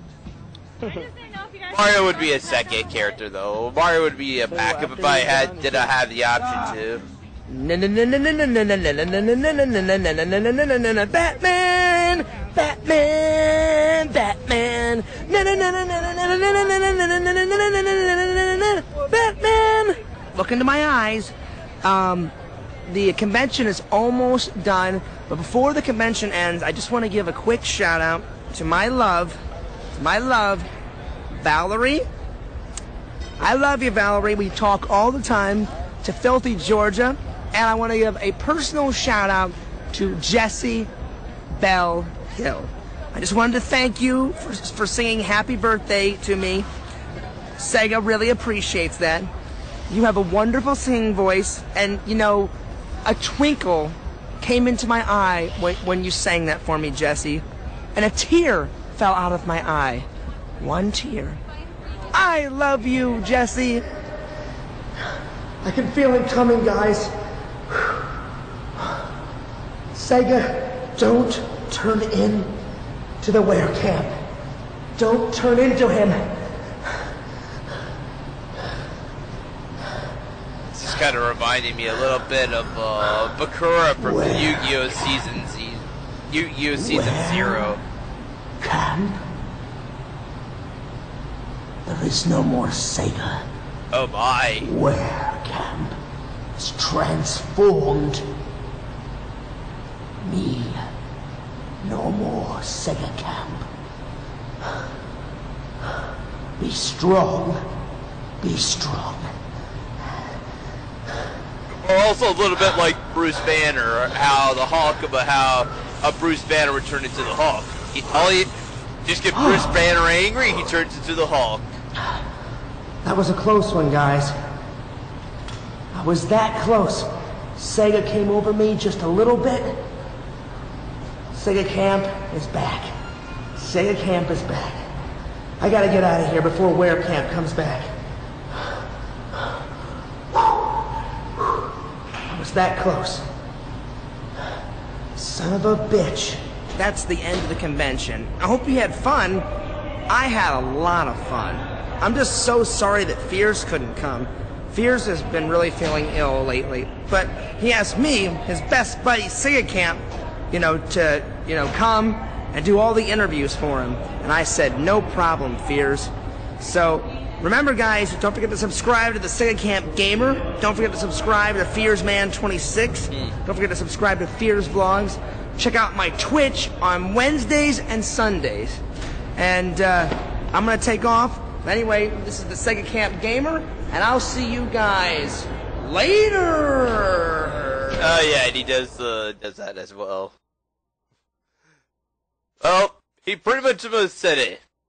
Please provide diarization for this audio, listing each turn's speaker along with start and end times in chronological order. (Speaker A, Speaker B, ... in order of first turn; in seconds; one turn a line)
Speaker A: 1.7-7.0
Speaker B: 6.3-6.8
Speaker B: 7.5-22.3
Speaker B: 22.9-29.4
Speaker B: 30.0-30.7
Speaker B: 31.3-32.0
Speaker B: 33.4-40.9
Speaker B: 41.5-46.7
Speaker B: 47.6-49.3
Speaker B: 49.9-52.5
Speaker B: 53.0-60.1
Speaker B: 60.6-61.4
Speaker B: 62.1-63.9
Speaker B: 65.6-67.1
Speaker B: 67.7-68.0
Speaker B: 69.9-72.5
Speaker B: 73.2-74.2
Speaker B: 75.0-76.5
Speaker A: 80.7-87.8
Speaker B: 84.0-85.2
Speaker B: 86.7-87.7
Speaker B: 88.6-89.2
Speaker B: 91.9-93.5
Speaker A: 93.9-94.7
Speaker B: 94.6-96.0
Speaker B: 96.6-98.2
Speaker B: 100.2-100.8
Speaker B: 101.8-103.7
Speaker B: 106.6-107.6
Speaker B: 108.4-109.3
Speaker A: 111.8-118.5
Speaker A: 119.0-121.6
Speaker B: 119.3-119.9
Speaker B: 123.0-124.3
Speaker B: 125.9-129.8
Speaker B: 131.3-132.9
Speaker B: 133.6-134.9
Speaker B: 135.6-137.9
Speaker B: 140.3-140.6
Speaker B: 142.3-143.2
Speaker B: 145.2-149.4
Speaker B: 150.1-178.8
Speaker B: 179.4-188.2
Speaker A: 188.0-190.3
Speaker A: 192.6-194.6